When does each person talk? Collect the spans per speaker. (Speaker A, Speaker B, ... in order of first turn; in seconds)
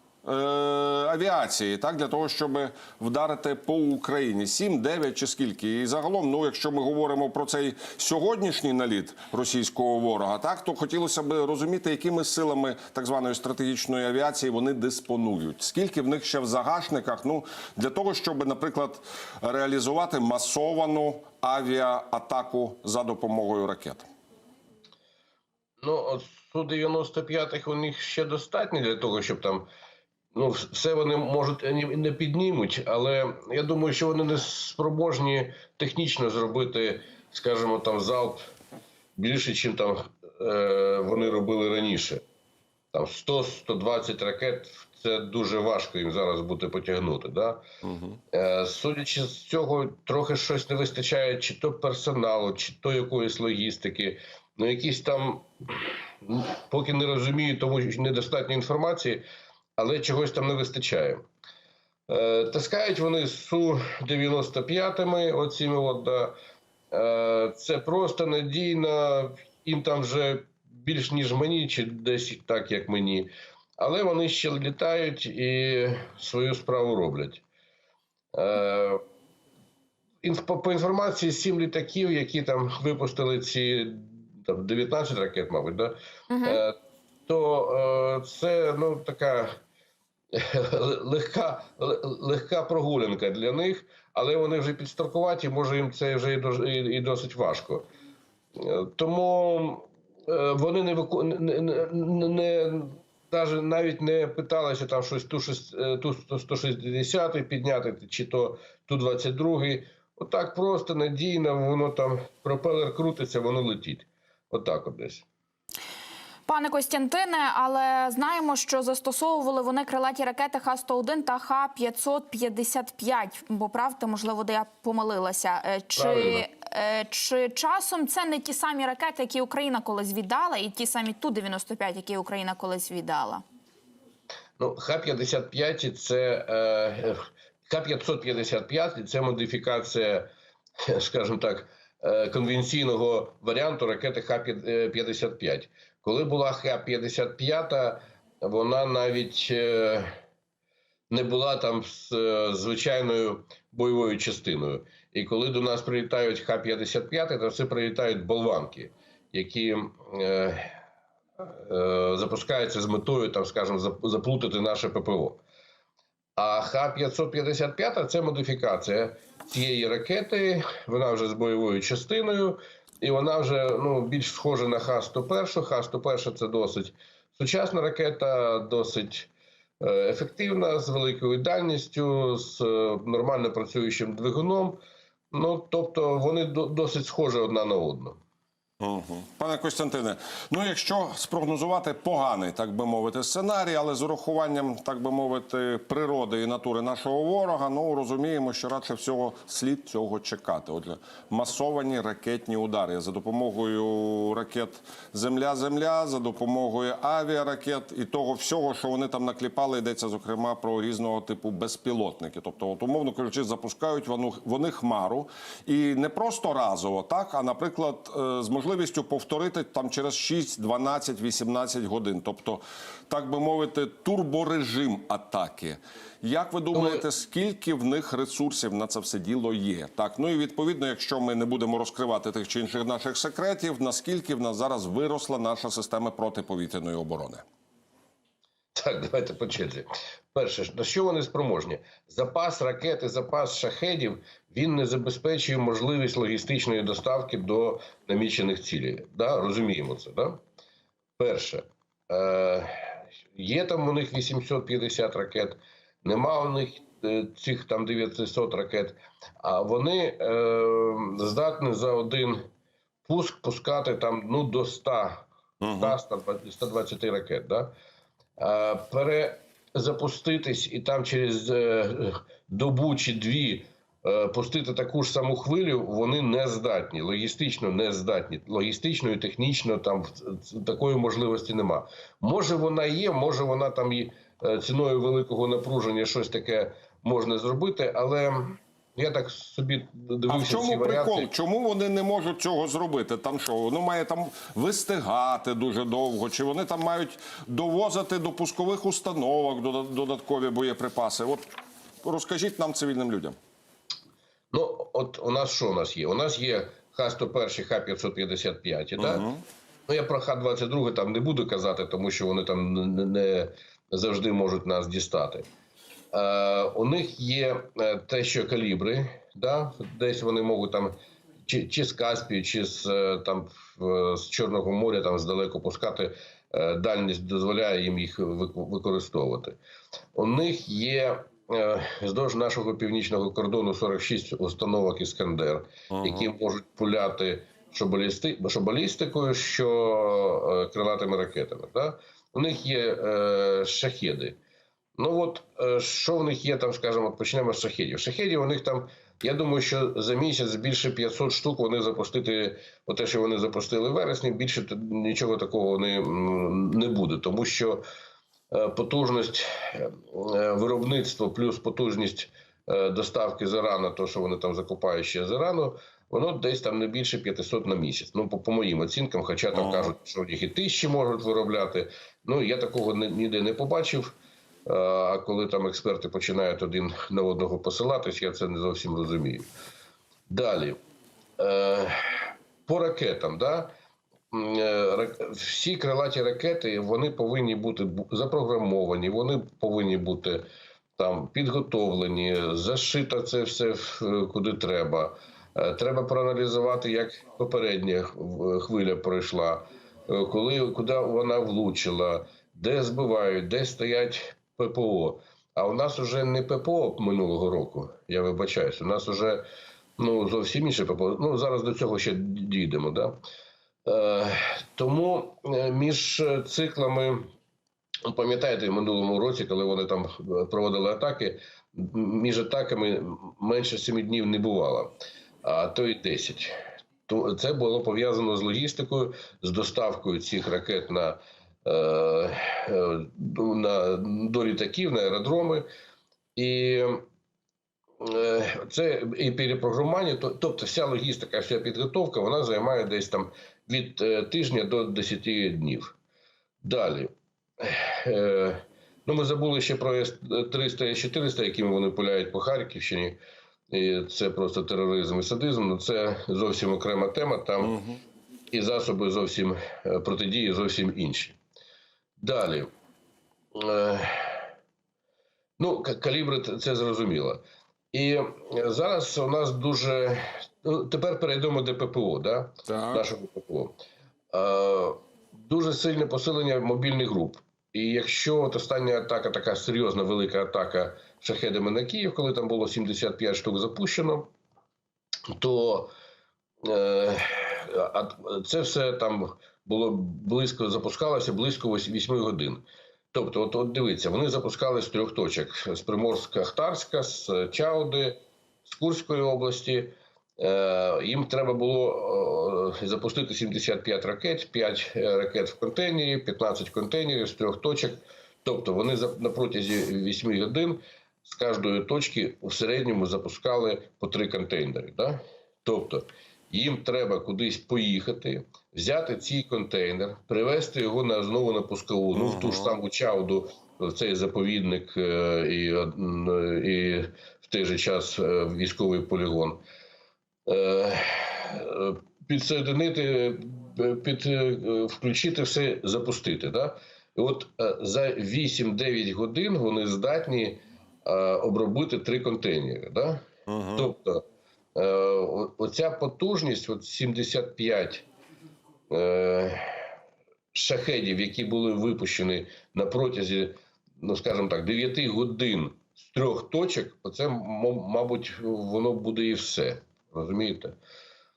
Speaker A: 0.2-24.1, 47.8-48.2, 188.8-237.4, 265.6-266.0, 290.3-301.5, 302.0-303.4, 309.0-309.4, 335.9-336.3, 369.6-369.9, 457.6-458.0, 472.7-473.1, 522.1-522.7, 543.5-543.9
Speaker B: 25.8-29.7, 30.3-38.5, 39.2-42.2, 42.9-47.6, 48.3-59.2, 59.8-61.2, 62.1-66.3, 66.9-77.4, 78.3-79.0, 80.2-86.7, 87.3-89.5, 90.3-97.9, 98.6-115.2, 126.0-126.4, 134.6-140.3, 140.8-150.2, 151.1-160.8, 161.4-165.4, 166.4-179.3, 179.8-188.2, 226.7-227.0, 238.8-250.4, 251.2-262.4, 263.1-267.7, 268.4-291.3, 304.5-309.3, 309.9-315.5, 316.1-329.6, 330.1-344.4, 345.0-357.8, 358.5-379.5, 380.3-380.8, 381.4-383.7, 384.3-390.5, 391.0-409.4, 410.0-413.2, 413.9-417.3, 418.1-424.9, 425.4-426.6, 427.1-435.7, 436.4-437.1, 438.0-446.0, 446.6-453.2, 453.7-457.8, 458.5-461.4, 462.2-462.7, 463.5-464.5, 465.6-467.4, 467.9-473.8, 474.3-484.3, 485.3-485.9, 486.6-529.6, 530.5-543.2, 543.8-548.1, 548.9-549.9, 550.5-560.8
Speaker C: 86.3-86.6, 116.5-133.4